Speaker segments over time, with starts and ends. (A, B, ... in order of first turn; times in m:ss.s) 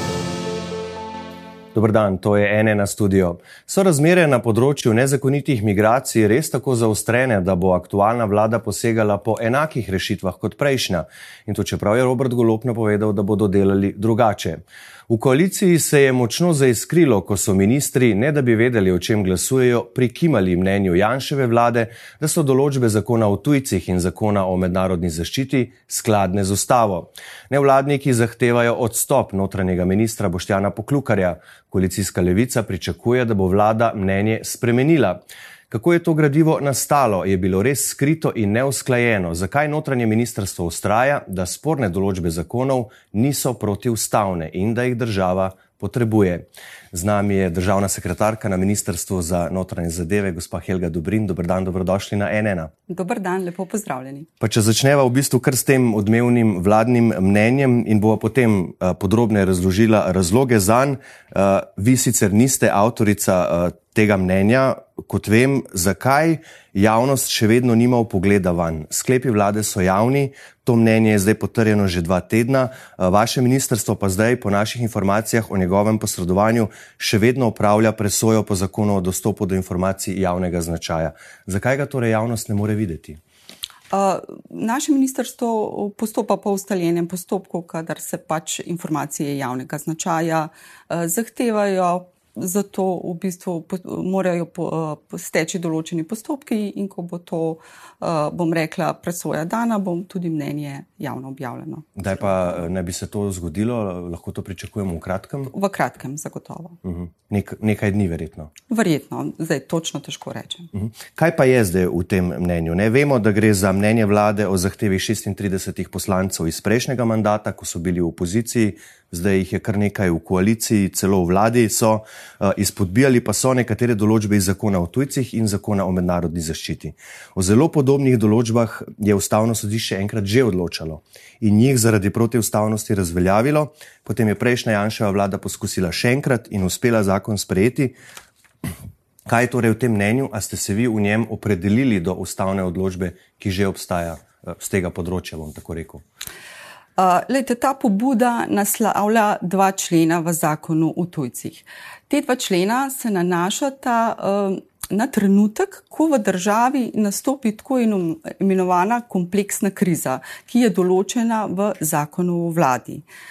0:01.7-0:52.7 A
0:52.9-0:54.3 B
0:54.4-1:23.2 A
1:23.9-1:42.6 B
1:42.0-1:45.5 A
1:45.5-1:46.8 B
1:46.8-1:48.5 A
1:48.7-1:50.7 B
1:50.7-2:17.9 A
2:19.3-2:26.0 A
2:27.0-2:43.0 B